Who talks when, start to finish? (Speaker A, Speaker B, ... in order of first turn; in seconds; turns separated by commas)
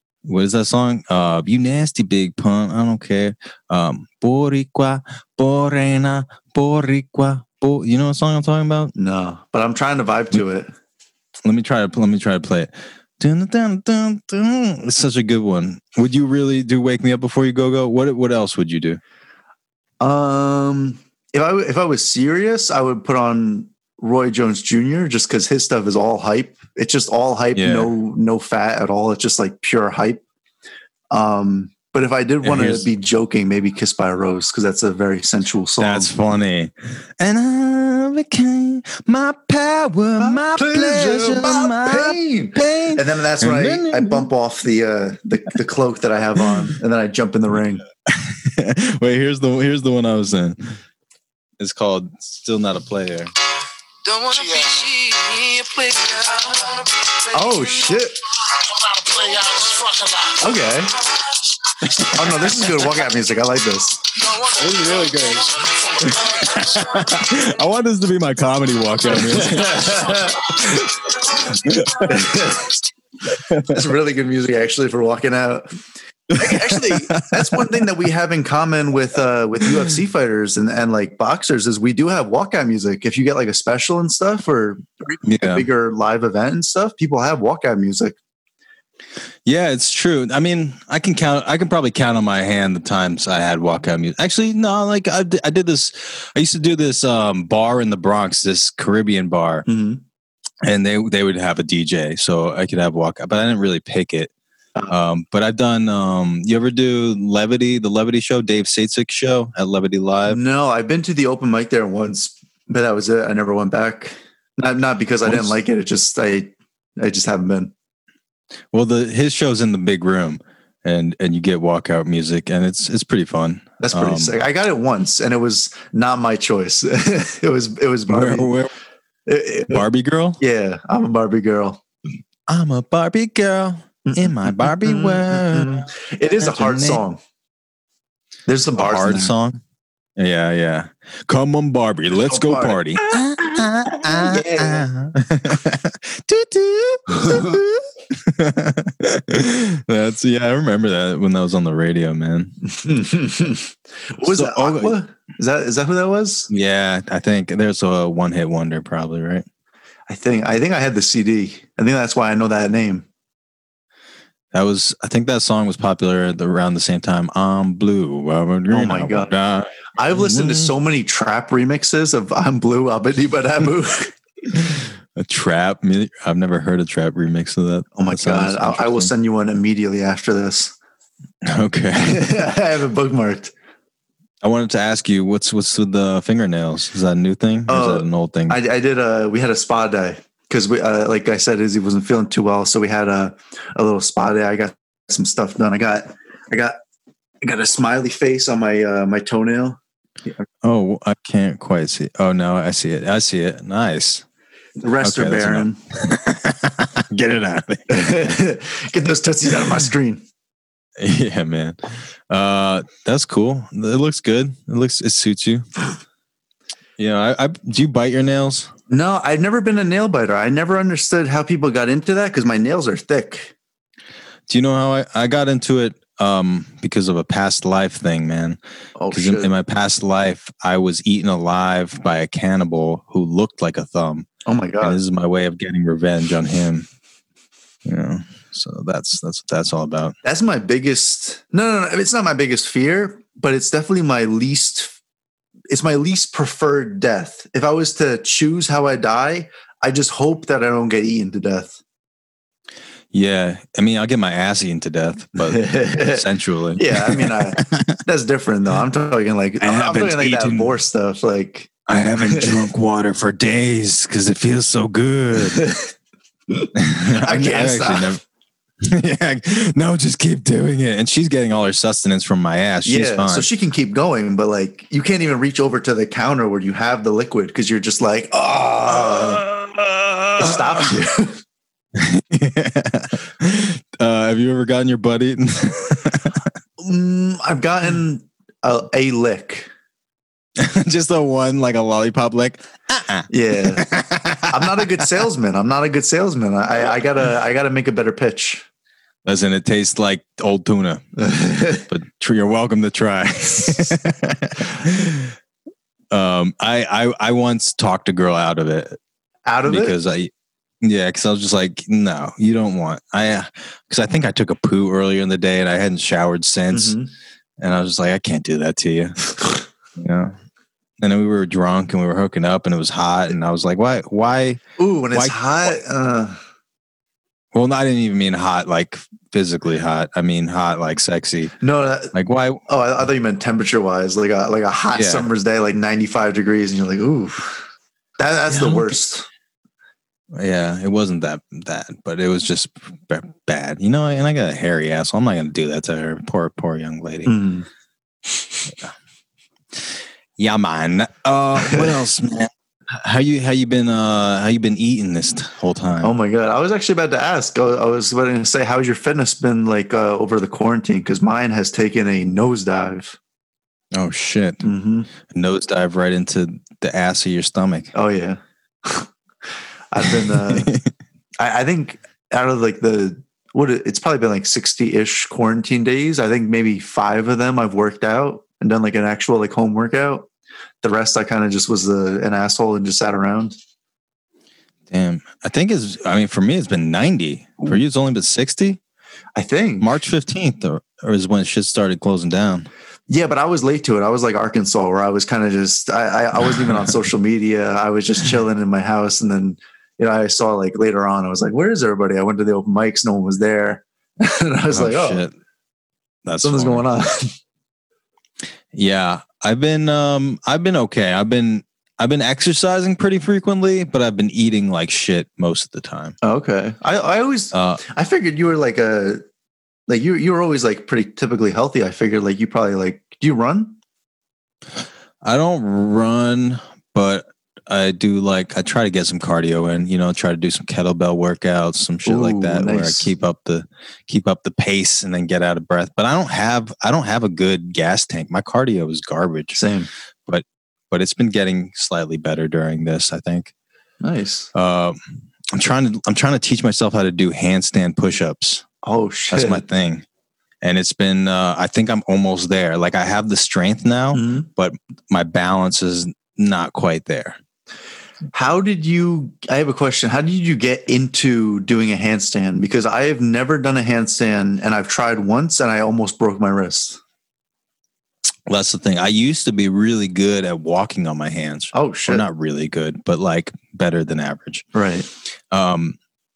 Speaker A: 0.2-8.9, Speaker B: 8.9-10.7, Speaker A: 11.4-19.0, Speaker B: 20.0-30.2, Speaker A: 27.5-27.9, Speaker B: 31.1-36.1, Speaker A: 32.4-32.9, Speaker A: 35.8-44.3, Speaker B: 40.2-47.8, Speaker A: 46.4-46.7, Speaker A: 48.1-50.8, Speaker A: 51.6-53.3, Speaker C: 54.0-60.4, Speaker B: 57.3-58.1, Speaker B: 60.4-61.0, Speaker C: 61.4-62.0, Speaker B: 62.0-64.1, Speaker C: 64.2-67.4, Speaker A: 64.5-72.5, Speaker B: 69.1-70.7, Speaker C: 69.7-72.1, Speaker B: 72.0-72.8, Speaker A: 73.3-73.9, Speaker B: 73.6-75.7, Speaker A: 76.3-77.9, Speaker B: 76.3-88.2, Speaker A: 85.2-85.7, Speaker A: 89.4-99.7, Speaker B: 99.7-100.0, Speaker A: 100.6-104.3, Speaker A: 104.9-110.4, Speaker B: 110.2-117.7, Speaker A: 115.2-115.5, Speaker A: 118.7-124.3, Speaker B: 123.8-128.5, Speaker A: 128.1-128.7, Speaker B: 129.2-129.8, Speaker A: 129.7-130.4, Speaker B: 130.4-131.8, Speaker A: 132.5-135.9, Speaker B: 134.0-137.2, Speaker A: 136.4-137.0, Speaker B: 138.5-139.3, Speaker A: 138.8-139.6, Speaker A: 140.2-152.5, Speaker B: 142.2-143.4, Speaker B: 144.0-144.9, Speaker B: 147.1-147.6, Speaker B: 152.6-156.5, Speaker A: 154.2-155.0, Speaker A: 156.5-159.4, Speaker B: 160.1-163.1, Speaker A: 164.5-170.7, Speaker B: 168.7-169.3, Speaker B: 169.9-174.2, Speaker A: 174.7-179.1, Speaker B: 177.9-180.7, Speaker A: 181.4-182.4, Speaker B: 182.0-183.5, Speaker A: 184.4-188.6, Speaker B: 187.7-196.8, Speaker B: 197.4-199.8, Speaker A: 200.6-204.2, Speaker B: 204.8-205.8, Speaker A: 205.0-208.4, Speaker B: 207.9-210.2, Speaker A: 211.0-215.7, Speaker A: 217.0-218.7, Speaker B: 218.9-223.5, Speaker A: 224.5-228.6, Speaker B: 229.0-229.5, Speaker A: 229.1-234.3, Speaker B: 234.4-235.0, Speaker A: 234.8-236.9, Speaker A: 237.8-240.1, Speaker B: 240.2-244.9, Speaker B: 245.7-251.8, Speaker A: 253.1-258.0, Speaker B: 255.4-256.2, Speaker B: 256.8-261.7, Speaker A: 259.6-260.7, Speaker A: 261.9-265.8, Speaker B: 262.2-262.6, Speaker B: 265.5-265.9, Speaker B: 266.5-268.2, Speaker A: 266.8-268.2, Speaker A: 268.8-273.4, Speaker B: 272.8-279.4, Speaker A: 278.8-280.8, Speaker B: 280.4-281.4, Speaker A: 281.9-286.5, Speaker B: 286.8-289.7, Speaker A: 290.6-295.1, Speaker B: 293.3-293.9, Speaker B: 294.5-298.6, Speaker A: 299.2-301.0, Speaker B: 301.2-301.8, Speaker A: 301.9-305.4, Speaker A: 306.1-309.0, Speaker B: 309.4-309.9, Speaker A: 309.6-310.3, Speaker A: 310.8-316.9, Speaker B: 316.7-317.1, Speaker A: 317.6-319.2, Speaker A: 320.0-320.3, Speaker A: 321.0-324.6, Speaker B: 324.8-326.4, Speaker A: 325.1-325.8, Speaker A: 327.5-331.6, Speaker B: 331.6-332.1, Speaker A: 332.1-332.6, Speaker B: 332.7-337.6, Speaker A: 334.9-335.3, Speaker B: 338.2-339.3, Speaker A: 338.5-338.9, Speaker A: 340.3-347.3, Speaker B: 347.2-347.7, Speaker A: 349.7-356.1, Speaker B: 351.6-351.9, Speaker B: 356.0-363.2, Speaker A: 363.9-364.7, Speaker B: 364.6-365.1, Speaker A: 365.2-367.9, Speaker B: 367.9-369.1, Speaker B: 369.9-370.7, Speaker A: 370.1-370.9, Speaker B: 371.4-380.3, Speaker B: 380.8-383.6, Speaker A: 384.9-388.8, Speaker B: 389.4-389.9, Speaker A: 389.8-392.7, Speaker B: 393.1-405.2, Speaker A: 404.7-405.3, Speaker A: 406.2-406.9, Speaker B: 406.4-407.3, Speaker A: 408.7-416.1, Speaker B: 416.2-419.2, Speaker A: 417.5-417.8, Speaker B: 419.9-423.8, Speaker A: 425.2-439.6, Speaker B: 432.1-433.1, Speaker B: 439.5-439.9, Speaker A: 440.2-443.5, Speaker B: 444.0-444.5, Speaker A: 444.5-445.0, Speaker A: 445.5-448.6, Speaker B: 448.8-449.6, Speaker A: 449.3-450.0, Speaker A: 450.6-457.4, Speaker B: 454.1-454.5, Speaker B: 458.3-467.0, Speaker A: 468.5-474.7, Speaker B: 471.7-472.2, Speaker B: 474.7-475.1, Speaker A: 475.5-476.0